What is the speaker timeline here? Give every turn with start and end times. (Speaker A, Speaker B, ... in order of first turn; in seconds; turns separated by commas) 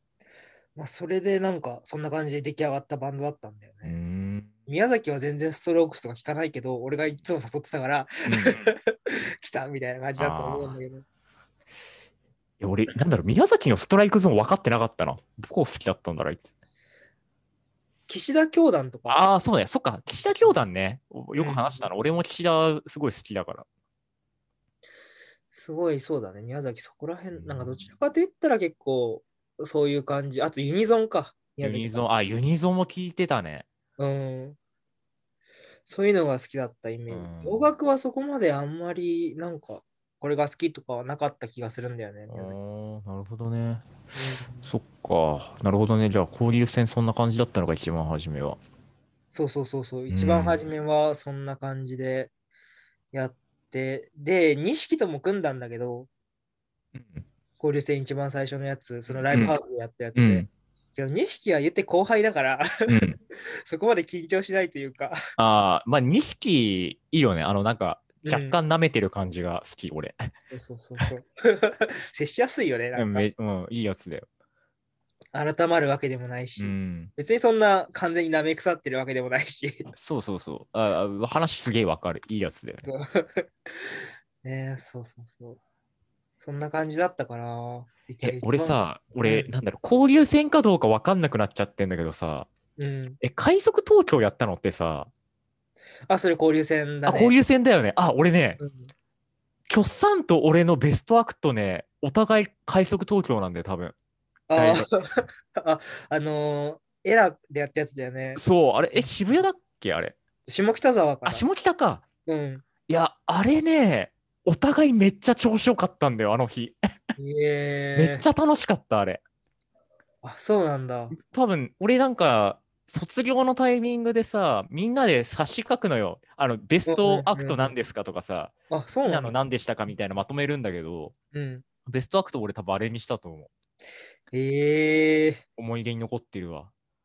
Speaker A: 0.8-4.0, Speaker B: 3.8-4.5, Speaker A: 4.7-11.0, Speaker B: 8.3-8.7, Speaker B: 10.2-10.8, Speaker B: 12.6-16.4, Speaker A: 18.1-19.3, Speaker B: 19.1-23.6, Speaker A: 21.4-21.9, Speaker A: 25.5-32.1, Speaker B: 27.3-27.9, Speaker B: 31.6-33.7, Speaker A: 34.0-34.6, Speaker A: 35.9-42.5, Speaker B: 37.1-37.7, Speaker B: 42.3-44.0, Speaker A: 44.1-44.7, Speaker B: 44.6-48.6, Speaker A: 49.3-52.3, Speaker B: 50.1-50.6, Speaker A: 53.1-56.1, Speaker B: 56.9-57.2, Speaker A: 57.6-62.9, Speaker B: 59.1-59.5, Speaker B: 60.1-60.5, Speaker B: 62.9-63.2, Speaker A: 63.6-65.2, Speaker B: 65.4-70.3, Speaker A: 68.2-68.6, Speaker A: 70.5-73.3, Speaker B: 73.0-74.2, Speaker A: 75.3-79.9, Speaker B: 76.6-77.1, Speaker B: 79.9-82.9, Speaker A: 82.8-83.9, Speaker A: 84.4-85.6, Speaker A: 86.4-89.5, Speaker B: 88.2-92.5, Speaker A: 92.8-93.2, Speaker B: 93.2-95.1, Speaker A: 96.1-97.3, Speaker B: 97.0-98.6, Speaker A: 98.6-98.9, Speaker B: 99.7-103.9, Speaker A: 104.5-108.4, Speaker B: 104.5-104.9, Speaker B: 108.3-110.1, Speaker A: 108.9-109.4, Speaker A: 110.5-111.5, Speaker B: 111.2-112.0, Speaker A: 112.2-112.6, Speaker B: 112.9-116.8, Speaker A: 117.2-118.2, Speaker B: 118.0-119.2, Speaker A: 120.2-121.1, Speaker B: 121.1-128.5, Speaker A: 126.8-127.7, Speaker A: 128.7-129.4, Speaker B: 129.1-131.1, Speaker A: 131.3-131.6, Speaker B: 131.8-133.5, Speaker A: 134.3-135.4, Speaker B: 135.6-136.7